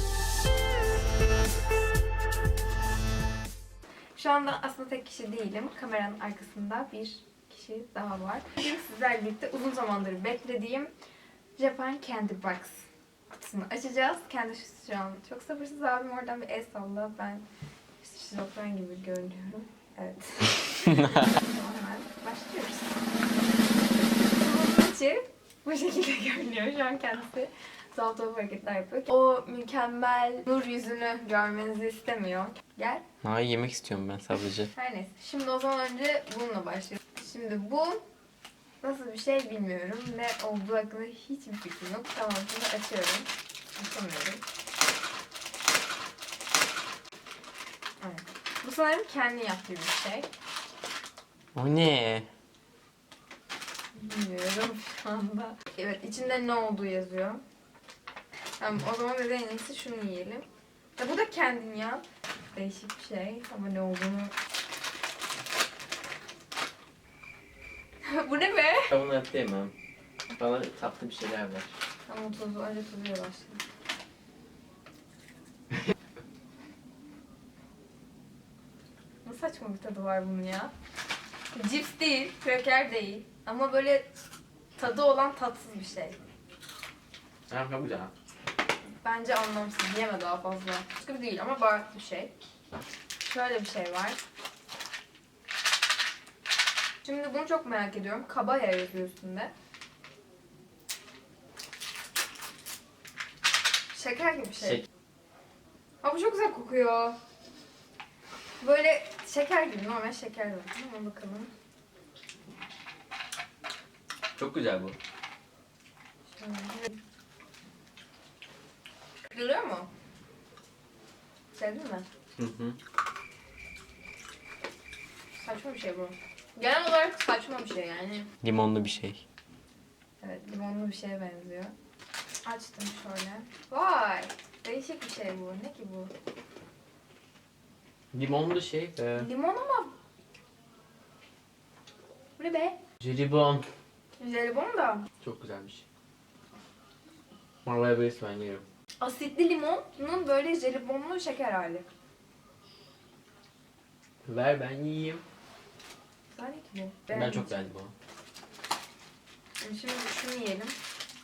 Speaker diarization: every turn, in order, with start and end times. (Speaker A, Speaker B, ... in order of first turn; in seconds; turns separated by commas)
Speaker A: 4.2-10.9, Speaker A: 11.6-17.4, Speaker A: 18.0-22.9, Speaker A: 24.3-33.0, Speaker B: 33.2-34.7, Speaker A: 34.7-38.0, Speaker A: 38.8-44.4, Speaker A: 48.0-50.3, Speaker B: 51.5-52.3, Speaker A: 53.9-57.4, Speaker A: 58.6-60.5, Speaker A: 61.0-64.3, Speaker A: 68.0-68.9, Speaker B: 68.9-69.7, Speaker B: 70.3-71.7, Speaker A: 72.1-73.6, Speaker A: 79.2-80.7, Speaker A: 81.5-84.1, Speaker A: 84.8-86.2, Speaker B: 87.5-88.1, Speaker A: 88.8-92.3, Speaker A: 93.2-94.2, Speaker A: 97.0-99.5, Speaker A: 103.9-104.8, Speaker A: 106.0-107.2, Speaker A: 108.6-111.5, Speaker B: 114.4-115.0, Speaker A: 116.4-117.0, Speaker A: 119.2-119.9, Speaker A: 121.5-122.0, Speaker B: 122.4-122.8, Speaker A: 125.4-128.3, Speaker B: 128.4-129.2, Speaker A: 130.2-131.7, Speaker A: 132.4-136.1, Speaker B: 138.1-139.3, Speaker A: 139.2-139.9, Speaker A: 142.4-142.8, Speaker B: 143.0-143.7, Speaker A: 144.2-145.1, Speaker B: 145.2-145.8, Speaker B: 147.7-148.6, Speaker A: 149.0-151.9, Speaker B: 154.2-155.2, Speaker A: 156.3-157.5, Speaker B: 157.1-157.9, Speaker A: 159.6-160.8